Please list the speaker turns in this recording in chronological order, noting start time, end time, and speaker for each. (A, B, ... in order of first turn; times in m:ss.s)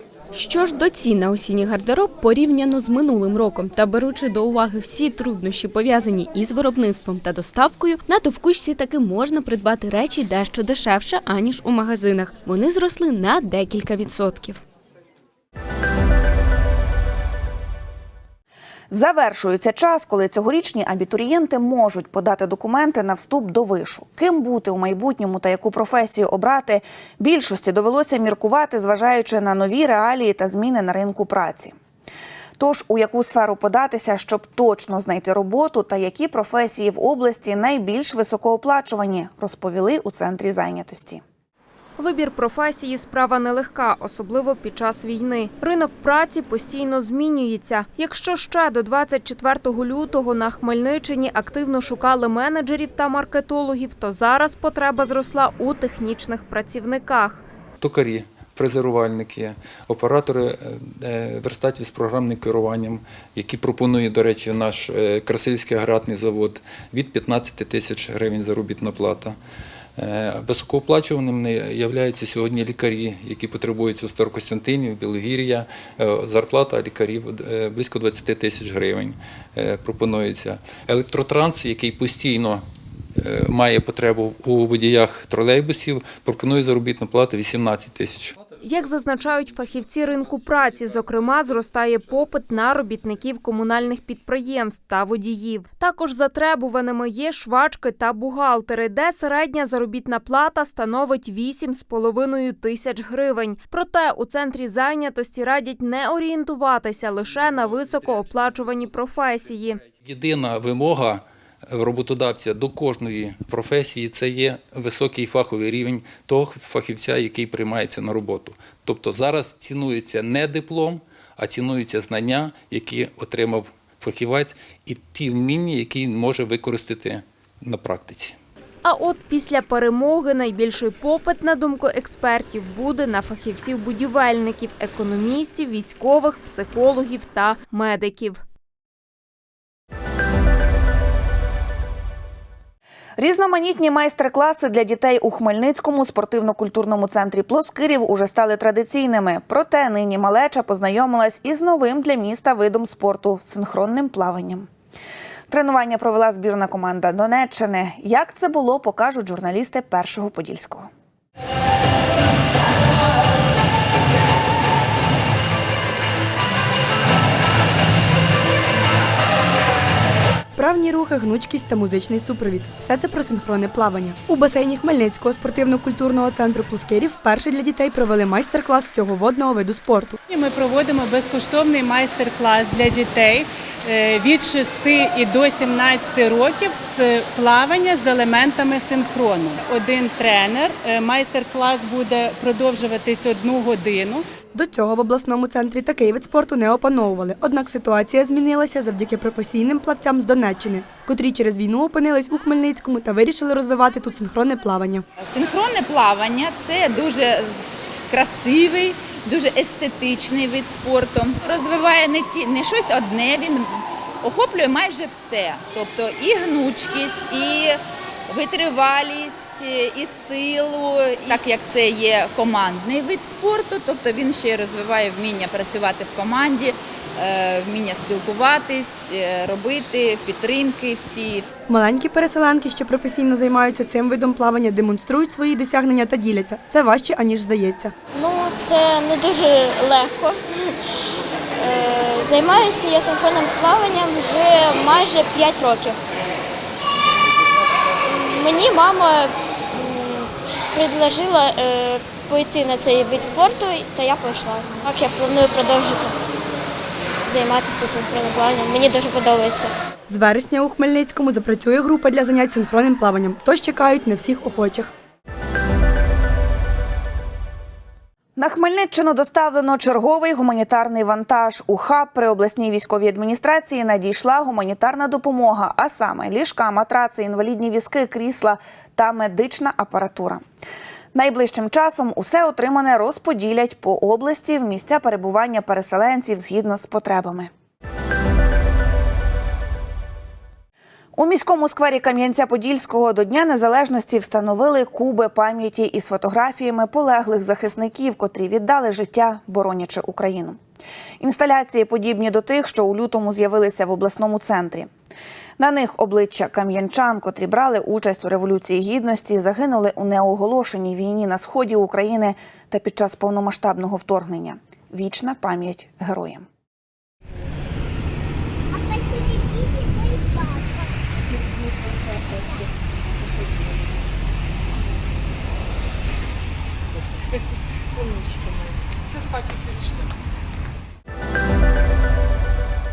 0:00.3-0:14.6 A
0:18.9-0:31.7 B
0:32.6-0:41.2 B
0:42.0-0:57.4 C
0:57.8-1:09.4 D
1:10.0-1:22.6 D
1:23.2-1:28.4 D
1:28.6-1:49.8 C
1:50.0-2:08.4 D
2:08.8-2:18.4 C
2:23.2-2:34.7 B
2:35.5-2:40.9 B
2:50.6-3:00.2 E
3:00.3-3:14.2 F
3:14.5-3:25.0 E
3:25.2-3:51.5 G
3:51.7-3:57.9 E
3:58.1-4:00.4 H
4:01.6-4:06.0 H
4:08.1-4:16.2 H
4:17.3-4:19.7 H
4:20.1-4:24.9 E
4:28.4-4:40.4 B
4:41.1-4:47.5 B
4:51.2-5:00.6 B
5:01.2-5:04.9 B
5:05.6-5:16.5 B